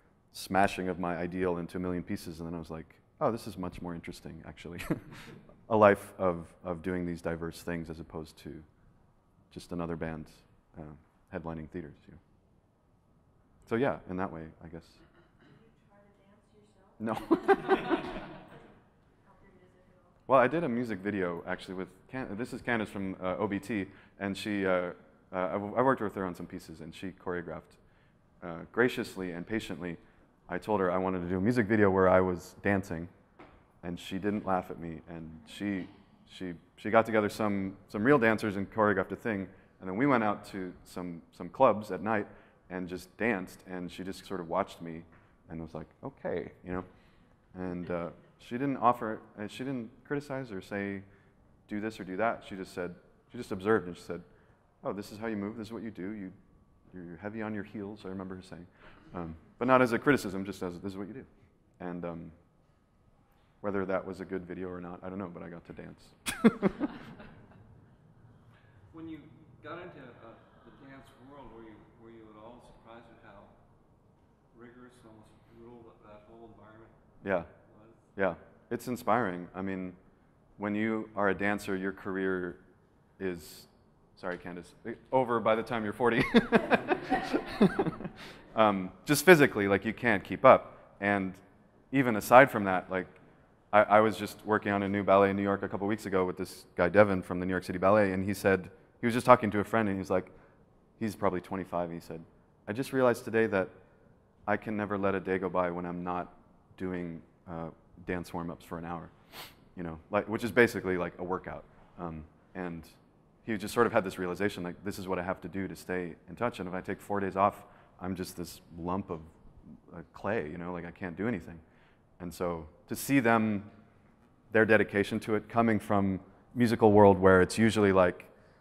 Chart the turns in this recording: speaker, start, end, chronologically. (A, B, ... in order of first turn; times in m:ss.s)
0:00.3-0:08.7 A
0:09.5-0:12.2 A
0:13.6-0:15.0 A
0:15.4-0:18.4 B
0:17.0-0:17.9 A
0:19.2-0:20.2 B
0:20.2-0:27.8 A
0:28.4-0:33.1 A
0:33.8-0:46.9 A
0:47.5-0:51.0 A
0:51.7-0:54.2 A
0:54.8-0:56.4 A
0:56.9-1:02.4 A
1:03.6-1:06.8 A
1:08.9-1:13.6 C
1:14.5-1:18.1 C
1:17.2-1:17.5 A
1:18.1-1:20.0 A
1:20.6-1:22.6 A
1:23.2-1:33.2 A
1:33.7-1:40.3 A
1:41.0-1:43.7 A
1:44.4-2:01.6 A
2:02.2-2:03.7 A
2:04.5-2:08.3 A